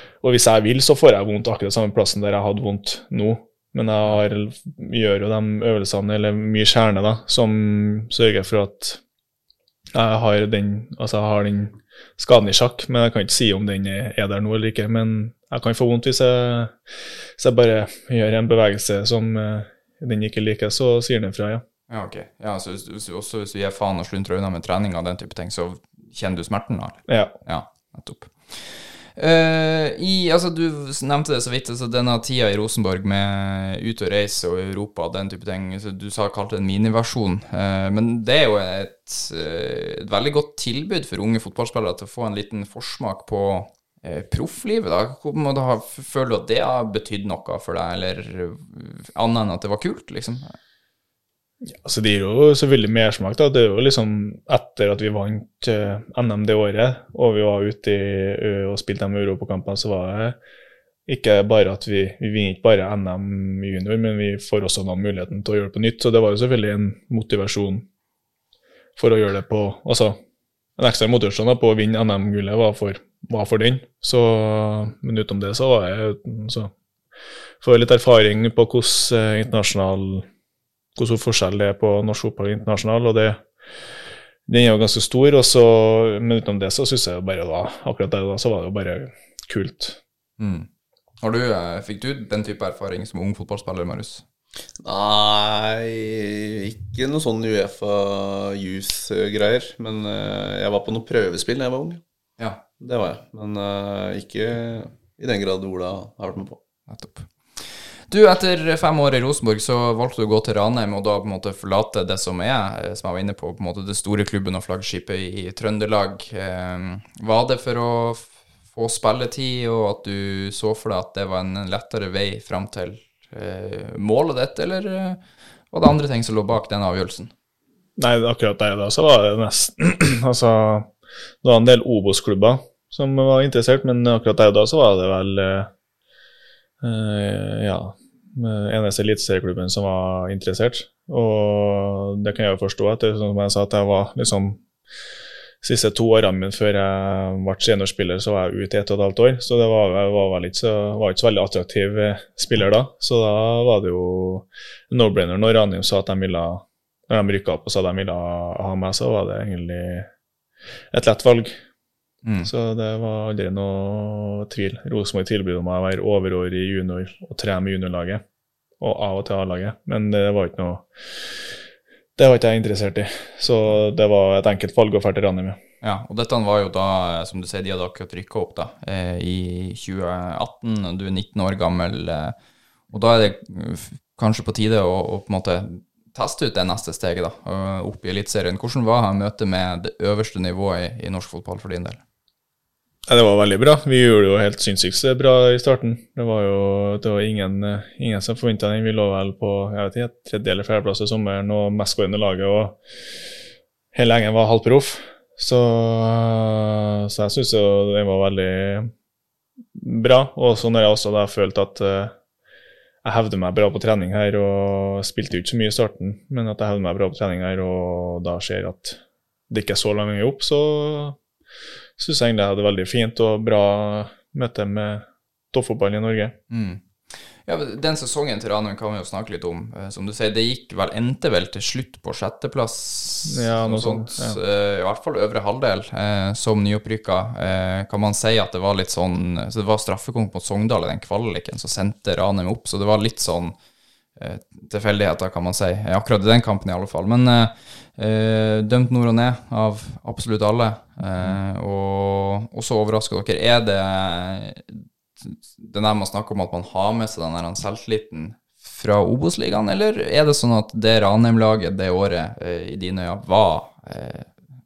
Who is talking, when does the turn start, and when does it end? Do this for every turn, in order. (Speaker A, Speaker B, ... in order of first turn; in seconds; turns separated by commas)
Speaker A: 0.2-9.0, Speaker A: 9.9-16.7, Speaker A: 17.4-21.6, Speaker B: 21.9-50.5, Speaker A: 27.1-27.3, Speaker A: 51.6-60.4, Speaker A: 61.1-67.9, Speaker A: 69.0-70.2, Speaker A: 70.8-76.7, Speaker A: 77.6-80.3, Speaker A: 81.0-83.4, Speaker A: 84.5-90.0, Speaker B: 90.4-90.7, Speaker B: 91.2-94.2, Speaker C: 94.8-102.0, Speaker C: 102.8-106.6, Speaker B: 106.9-125.2, Speaker B: 125.7-127.3, Speaker A: 128.0-130.9, Speaker A: 131.4-135.7, Speaker A: 136.8-144.6, Speaker A: 145.6-160.1, Speaker A: 160.9-161.5, Speaker B: 162.2-162.5, Speaker A: 162.4-168.2, Speaker A: 168.8-171.4, Speaker A: 172.2-175.6, Speaker B: 175.8-182.3, Speaker B: 182.9-192.0, Speaker A: 193.1-202.8, Speaker A: 203.9-208.9, Speaker A: 209.8-212.1, Speaker A: 213.0-219.0, Speaker A: 219.5-221.2, Speaker A: 222.0-226.4, Speaker B: 226.5-243.6, Speaker A: 233.3-234.4, Speaker B: 244.2-264.3